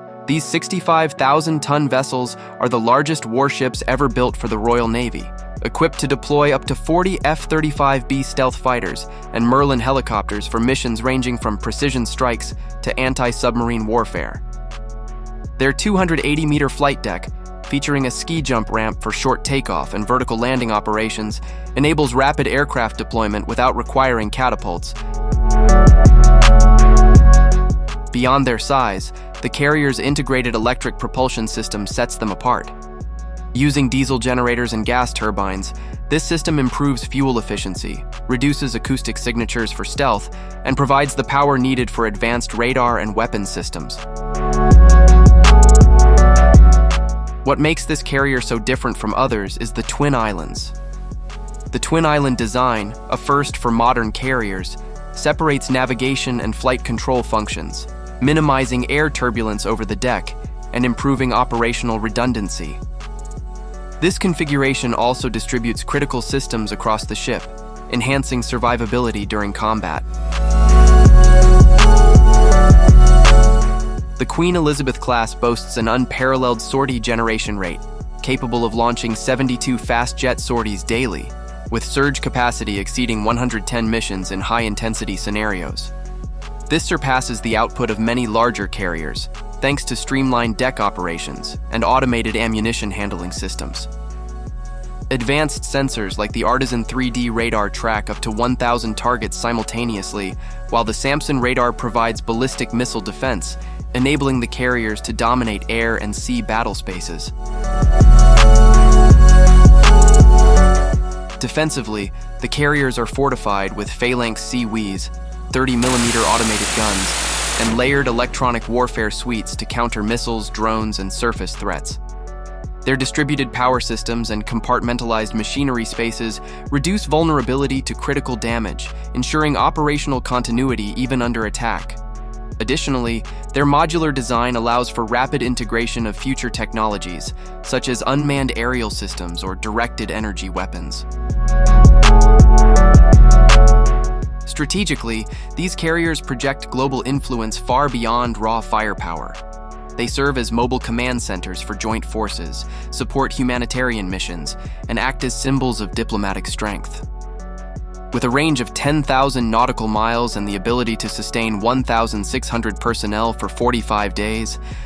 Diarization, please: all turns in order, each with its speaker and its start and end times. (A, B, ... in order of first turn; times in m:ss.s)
0:00.2-0:14.4 A
0:15.6-0:25.0 A
0:28.1-0:32.7 A
0:33.5-0:44.0 A
0:47.4-0:50.7 A
0:51.7-1:02.8 A
1:04.0-1:10.0 A
1:14.2-1:25.9 A
1:26.7-1:33.9 A
1:35.1-1:47.3 A
1:51.4-2:02.0 A
2:02.8-2:12.0 A
2:12.6-2:21.0 A
2:24.4-2:29.4 A
2:30.0-2:37.0 A
2:38.1-2:44.6 A